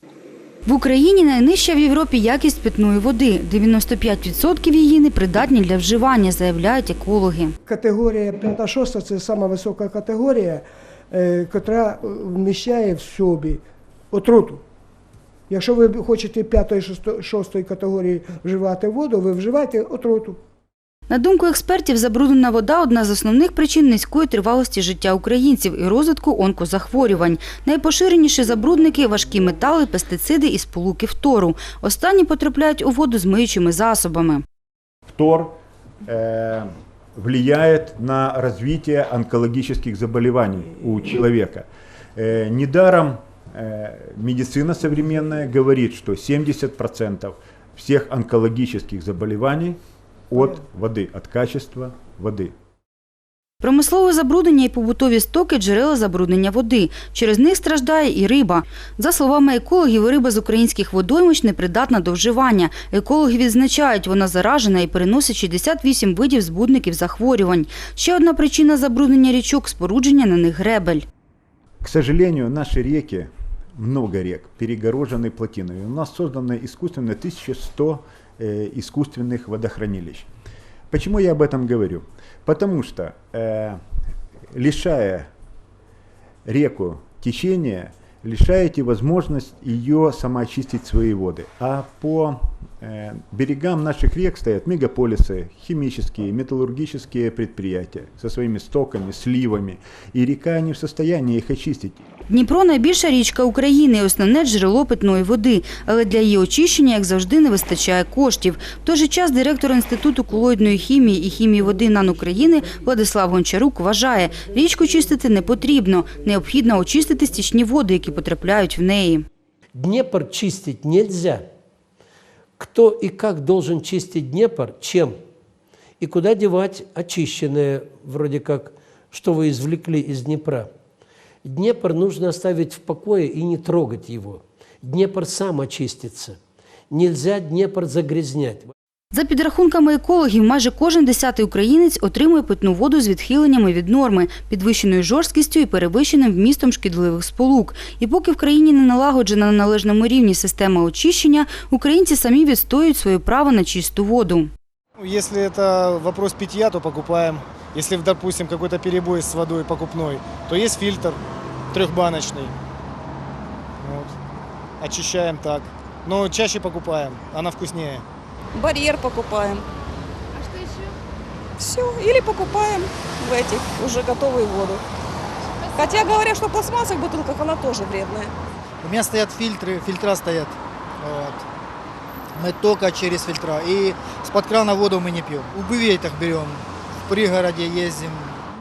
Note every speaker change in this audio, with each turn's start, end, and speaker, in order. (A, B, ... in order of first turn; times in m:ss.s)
0:00.6-0:07.5 A
0:07.7-0:14.6 B
0:15.5-0:20.4 B
0:21.1-0:34.4 A
0:35.1-0:35.5 C
0:36.0-0:49.8 C
0:50.3-0:52.5 C
0:53.6-1:11.0 A
1:11.8-1:20.3 C
1:20.9-1:23.8 C
1:24.5-1:25.3 C
1:26.4-1:42.0 C
1:42.3-1:59.2 A
1:59.7-2:01.4 D
2:02.6-2:05.1 D
2:06.0-2:10.7 D
2:11.4-2:16.4 D
2:16.9-2:18.7 D
2:19.1-2:34.5 A
2:35.0-2:41.2 E
2:41.7-2:42.5 E
2:43.8-2:44.2 E
2:44.8-2:48.0 E
2:48.5-2:49.6 F
2:51.6-2:54.8 F
2:55.7-2:58.3 F
2:58.8-3:01.4 G
3:02.3-3:08.4 G